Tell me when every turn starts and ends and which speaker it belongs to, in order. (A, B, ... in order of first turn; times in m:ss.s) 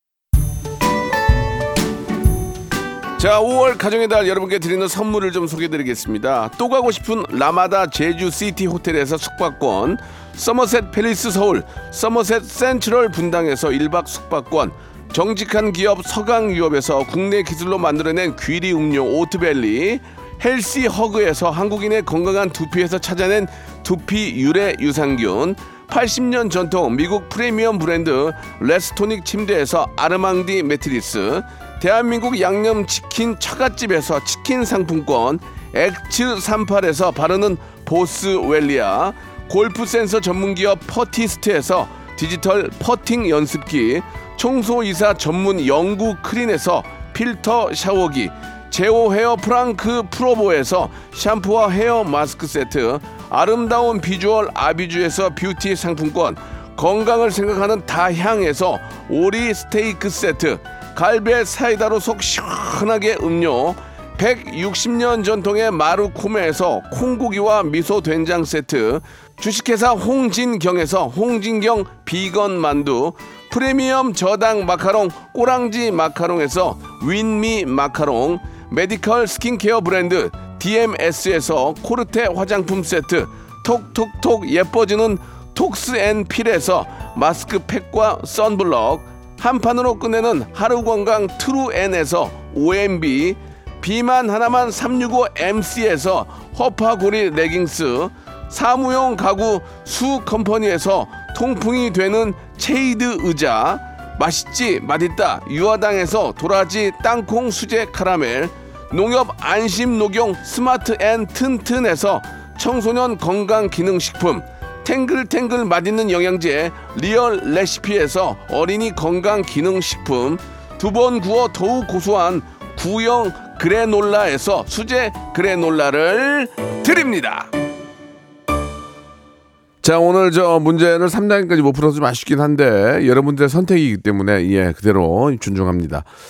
0:03.2-2:07.5 A
2:09.8-2:16.1 A